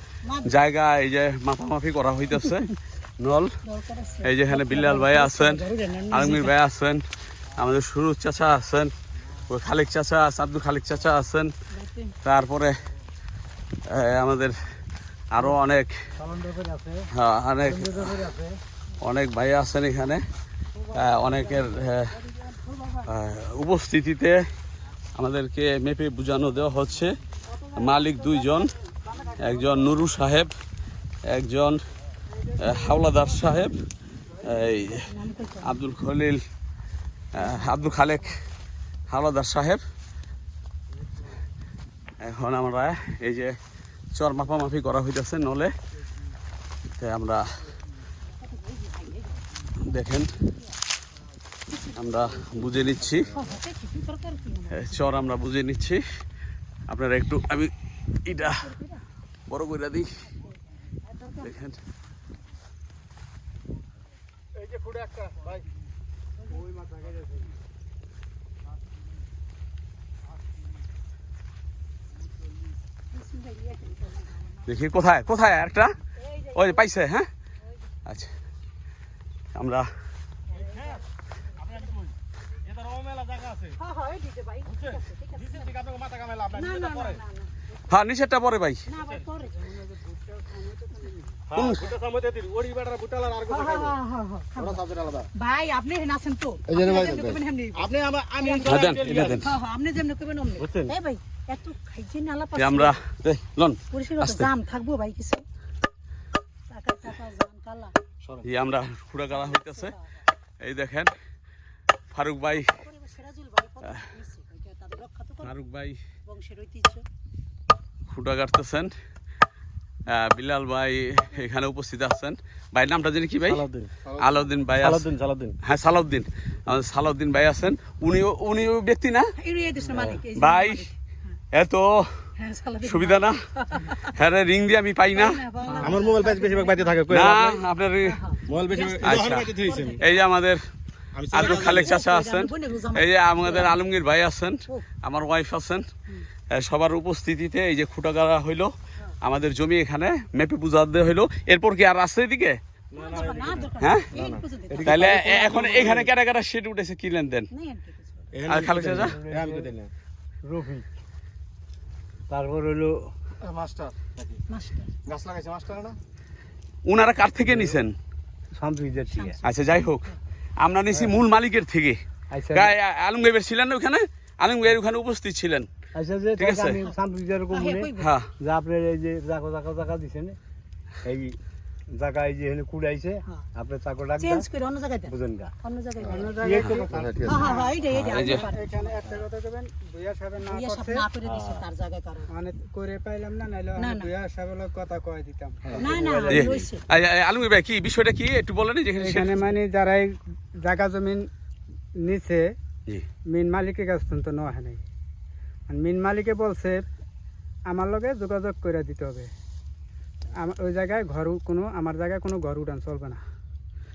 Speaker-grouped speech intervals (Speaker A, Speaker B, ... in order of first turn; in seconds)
Speaker A: 0.2-0.6, 2.4-2.7, 3.6-6.6, 11.7-12.1, 20.8-23.1, 27.7-28.5, 35.1-35.7, 37.4-37.7, 48.4-49.4, 51.7-52.5, 53.3-55.2, 58.3-59.0, 61.0-61.5, 73.1-74.5, 76.2-76.9, 80.5-81.0, 83.8-85.7, 86.5-87.6, 88.9-89.7, 93.4-103.0, 103.9-105.4, 106.7-108.0, 109.3-110.0, 112.7-115.5, 116.2-117.0, 129.4-130.9, 132.4-134.1, 135.1-137.0, 138.0-140.2, 141.4-143.8, 153.0-155.9, 157.5-158.4, 164.5-164.9, 169.1-169.9, 177.5-178.1, 184.2-186.5, 187.2-189.0, 190.4-192.3, 193.8-194.1, 195.8-196.8
Speaker B: 0.4-2.7, 3.2-3.5, 4.2-7.0, 7.5-8.9, 9.5-11.5, 12.2-12.8, 13.8-14.6, 15.3-15.9, 17.1-18.2, 19.0-20.2, 20.9-22.1, 23.0-24.4, 25.1-27.1, 27.7-28.7, 29.3-30.5, 31.2-31.8, 32.5-33.8, 34.4-35.1, 35.6-36.4, 37.3-38.4, 39.1-39.8, 42.2-43.6, 44.1-45.7, 47.0-47.5, 49.8-50.3, 51.9-53.4, 54.7-56.0, 56.9-57.7, 58.2-58.7, 59.5-60.2, 61.4-61.8, 74.6-75.9, 76.5-77.3, 78.0-78.3, 79.5-79.9, 87.9-88.8, 91.5-91.9, 98.6-99.5, 102.5-104.5, 108.4-110.0, 110.6-111.1, 112.1-112.8, 115.4-116.0, 118.1-118.9, 120.1-123.6, 124.2-125.0, 125.6-129.3, 130.3-130.9, 131.5-132.3, 132.8-133.4, 134.1-135.4, 137.1-138.2, 139.0-140.6, 141.3-145.9, 146.5-152.6, 153.8-154.2, 154.8-157.5, 158.5-159.2, 166.8-167.9, 169.4-172.0, 172.5-175.7, 176.4-176.8, 178.0-178.3, 187.9-188.5, 196.3-199.5
Speaker C: 16.2-17.1, 17.6-18.6, 158.8-159.7, 160.4-160.8, 162.3-163.1, 167.4-167.8, 168.6-169.4, 170.9-171.2, 172.3-172.7, 175.9-180.4, 181.0-181.4, 181.9-184.4, 185.1-185.5, 186.2-187.3, 191.3-191.6, 195.8-196.6
Speaker D: 64.5-65.6, 80.5-81.0, 81.6-83.8, 84.7-87.2, 91.5-94.0, 94.6-95.3, 97.7-99.5, 100.6-100.9, 123.4-125.6, 129.9-130.2, 135.8-137.6, 138.5-140.0, 141.1-142.0, 152.9-156.1, 158.3-159.9, 163.4-164.4, 165.0-166.0, 195.7-196.4
Speaker E: 89.6-91.4, 186.0-191.1, 192.3-195.8, 199.0-201.3, 202.0-202.5, 203.3-204.8, 205.7-206.8, 207.7-209.3, 210.3-213.2